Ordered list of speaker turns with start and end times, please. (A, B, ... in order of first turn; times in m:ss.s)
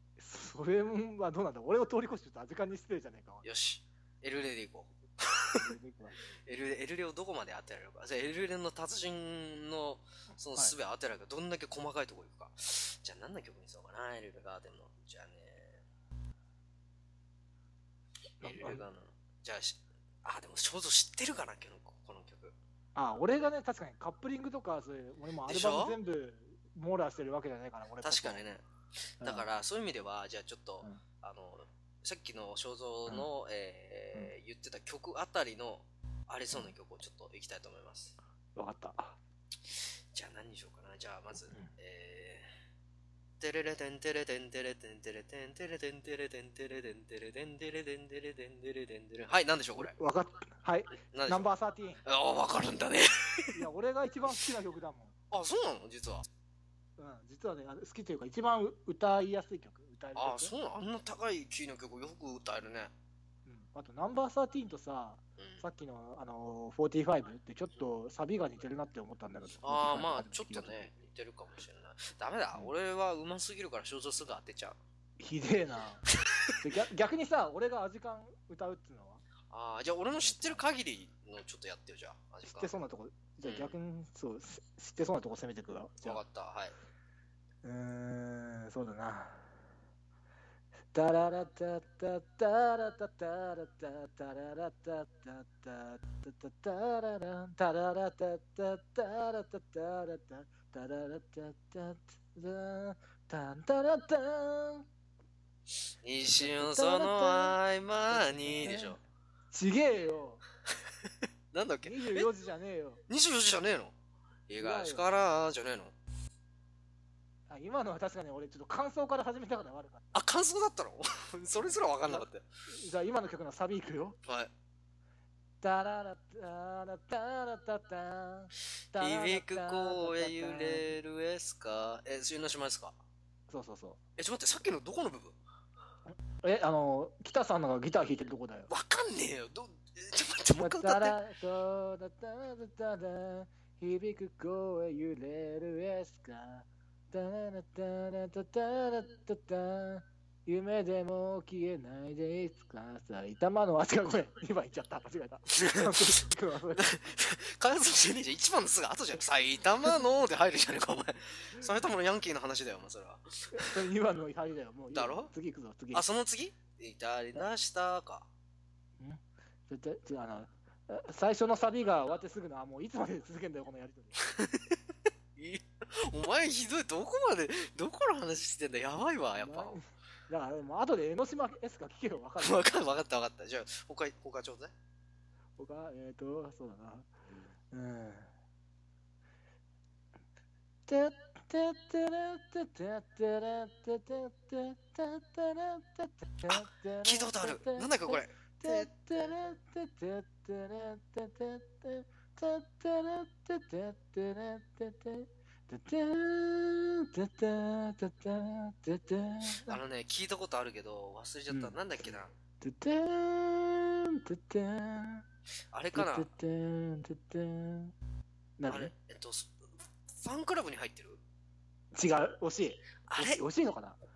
0:00.2-0:03.4 A
0:03.4-0:05.6 B
0:05.6-0:06.2 A
0:06.5-0:15.8 B
0:18.4-0:18.8 A
0:18.4-0:22.6 B
0:23.0-0:28.4 A
0:25.5-0:26.0 B
0:28.0-0:38.2 B
0:29.2-0:29.5 A
0:38.6-0:39.2 A
0:39.7-0:42.5 B
0:43.4-0:50.0 B
0:49.8-0:52.0 A
0:51.1-0:51.5 B
0:52.0-0:53.6 B
0:53.6-0:55.1 A
0:55.3-0:56.3 B
0:57.0-1:00.5 A
1:00.2-1:02.9 B
1:03.5-1:10.9 A
1:05.4-1:05.6 B
1:09.6-1:14.8 B
1:15.2-1:16.0 A
1:16.6-1:19.2 A
1:19.5-1:22.7 B
1:20.2-1:20.6 A
1:22.5-1:26.2 A
1:23.4-1:23.8 B
1:26.0-1:26.8 B
1:27.6-1:29.5 A
1:30.9-1:44.9 A
1:46.0-1:49.0 B
1:46.3-1:47.6 A
1:48.1-1:49.0 A
1:49.5-1:50.4 A
1:51.0-1:52.3 B
1:51.8-1:53.0 A
1:53.1-1:54.0 B
1:54.5-1:55.9 B
1:54.6-1:55.0 A
1:57.5-2:00.1 A
2:00.1-2:02.5 B
2:01.6-2:04.2 A
2:04.2-2:04.5 B
2:05.6-2:10.9 A
2:08.9-2:13.0 B
2:13.5-2:14.0 A
2:14.2-2:15.4 B
2:16.3-2:18.7 A
2:18.7-2:21.2 B
2:20.6-2:36.9 A
2:35.5-2:36.2 B
2:36.7-2:43.8 B
2:43.5-2:46.0 A
2:44.9-2:45.3 B
2:45.9-2:48.3 B
2:49.0-2:54.2 A
2:54.2-2:54.8 B
2:55.4-2:59.8 B
2:59.4-3:02.7 A
3:02.4-3:04.7 B
3:05.6-3:07.1 A
3:07.7-3:08.3 A
3:10.9-3:29.8 A
3:16.5-3:19.3 B
3:29.6-3:32.3 B
3:31.5-3:35.2 A
3:35.7-3:36.3 B
3:35.9-3:37.9 A
3:38.6-3:38.9 A
3:38.7-3:39.5 B
3:40.1-3:41.2 B
3:41.9-3:44.0 A
3:43.0-3:43.5 B